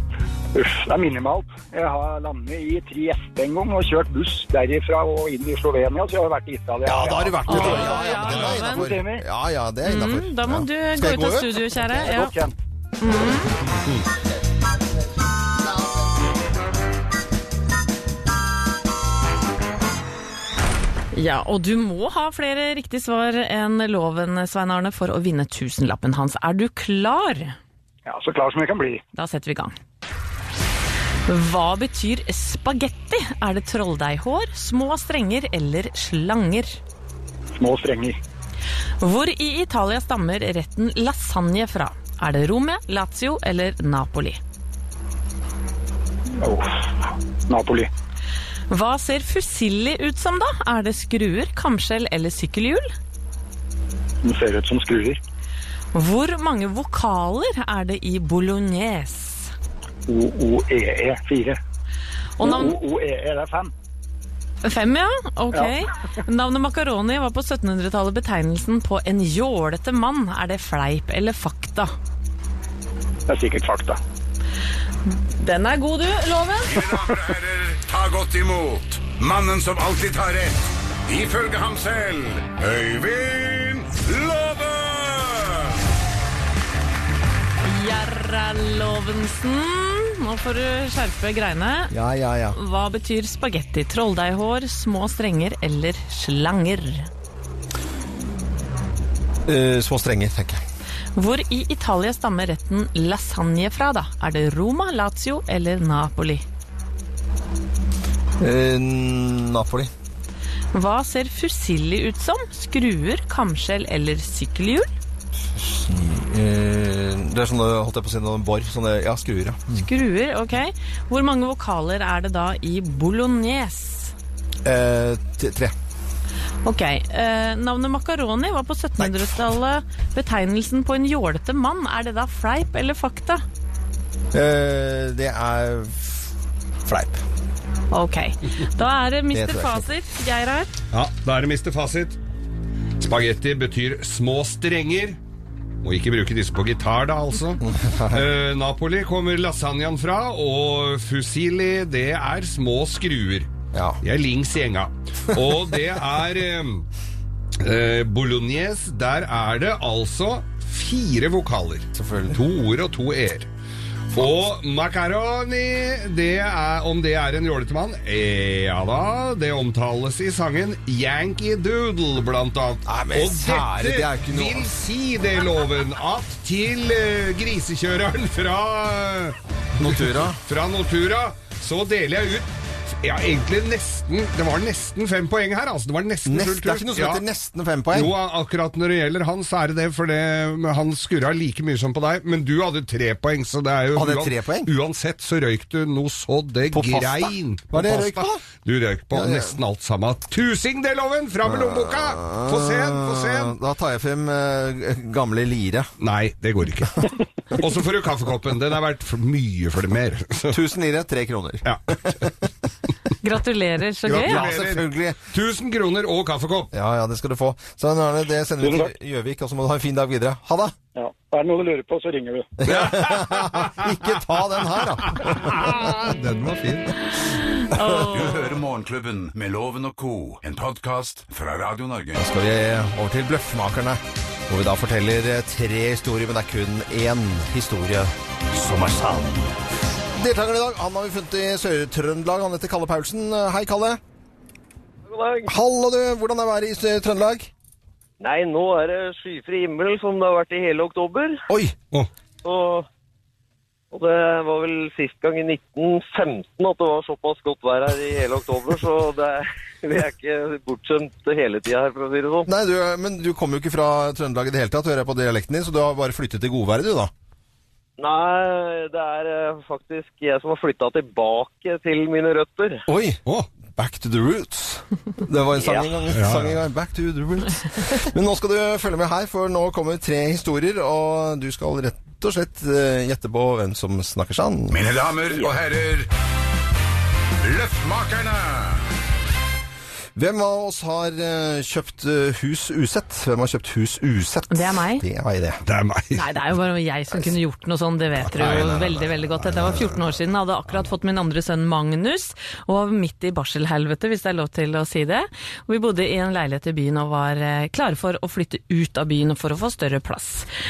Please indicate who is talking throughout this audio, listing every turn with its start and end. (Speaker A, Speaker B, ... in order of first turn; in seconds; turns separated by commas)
Speaker A: 0.5-8.0, Speaker B: 6.8-12.1, Speaker C: 7.5-8.9, Speaker D: 7.5-8.5, Speaker A: 8.6-9.2, Speaker C: 9.8-12.3, Speaker A: 12.0-12.5, Speaker C: 13.0-13.6, Speaker D: 13.7-14.0, Speaker C: 21.1-27.6, Speaker A: 28.1-29.0, Speaker C: 29.1-29.7, Speaker C: 31.3-36.8, Speaker A: 37.6-38.2, Speaker C: 39.0-44.4, Speaker A: 46.4-47.9, Speaker C: 48.7-52.9, Speaker A: 54.2-55.2, Speaker C: 55.9-59.5, Speaker A: 60.1-61.6, Speaker C: 62.4-62.8, Speaker A: 62.4-63.7, Speaker C: 64.6-71.9, Speaker A: 73.3-74.0, Speaker C: 75.3-76.8, Speaker E: 76.6-85.7, Speaker C: 87.6-91.9, Speaker B: 91.9-92.6, Speaker C: 92.5-97.1, Speaker B: 99.5-100.6, Speaker C: 101.2-106.4, Speaker B: 108.4-109.9, Speaker C: 110.7-114.9, Speaker B: 115.5-119.8, Speaker C: 119.7-124.1, Speaker B: 124.6-125.7, Speaker C: 126.6-133.4, Speaker B: 129.0-129.3, Speaker B: 134.3-136.3, Speaker B: 136.8-137.2, Speaker C: 137.9-140.7, Speaker B: 139.3-139.8, Speaker D: 140.9-142.2, Speaker D: 143.0-145.2, Speaker D: 145.8-153.5, Speaker B: 147.6-148.3, Speaker B: 153.7-154.0, Speaker D: 154.0-156.9, Speaker D: 157.6-163.5, Speaker B: 161.9-162.4, Speaker D: 164.1-187.2, Speaker B: 172.8-174.7, Speaker B: 179.8-180.4, Speaker B: 186.2-188.1, Speaker D: 187.9-203.5, Speaker B: 193.9-194.7, Speaker B: 196.7-198.4, Speaker B: 199.1-199.6, Speaker B: 201.4-205.9, Speaker D: 206.0-210.6, Speaker B: 210.5-212.3, Speaker D: 211.6-212.0, Speaker C: 213.2-214.4, Speaker D: 214.1-216.7, Speaker B: 214.2-215.2, Speaker B: 216.7-220.7, Speaker A: 218.6-218.9, Speaker A: 220.9-222.5, Speaker B: 222.6-225.9, Speaker D: 222.6-224.1, Speaker D: 224.8-226.9, Speaker C: 227.5-228.6, Speaker B: 227.7-228.1, Speaker E: 228.0-232.2, Speaker B: 232.2-238.1, Speaker E: 238.6-239.1, Speaker B: 240.2-244.0, Speaker F: 245.1-245.5, Speaker B: 245.5-247.5, Speaker F: 248.2-251.4, Speaker B: 251.5-251.7, Speaker F: 252.4-252.9, Speaker F: 253.9-262.5, Speaker B: 262.5-267.1, Speaker F: 268.0-272.8, Speaker B: 272.9-273.2, Speaker B: 273.8-284.8, Speaker F: 275.6-275.9, Speaker D: 276.1-276.6, Speaker E: 284.7-286.1, Speaker E: 287.4-288.8, Speaker B: 290.1-295.6, Speaker C: 294.5-295.0, Speaker D: 295.6-296.2, Speaker C: 296.1-310.5, Speaker D: 298.3-299.8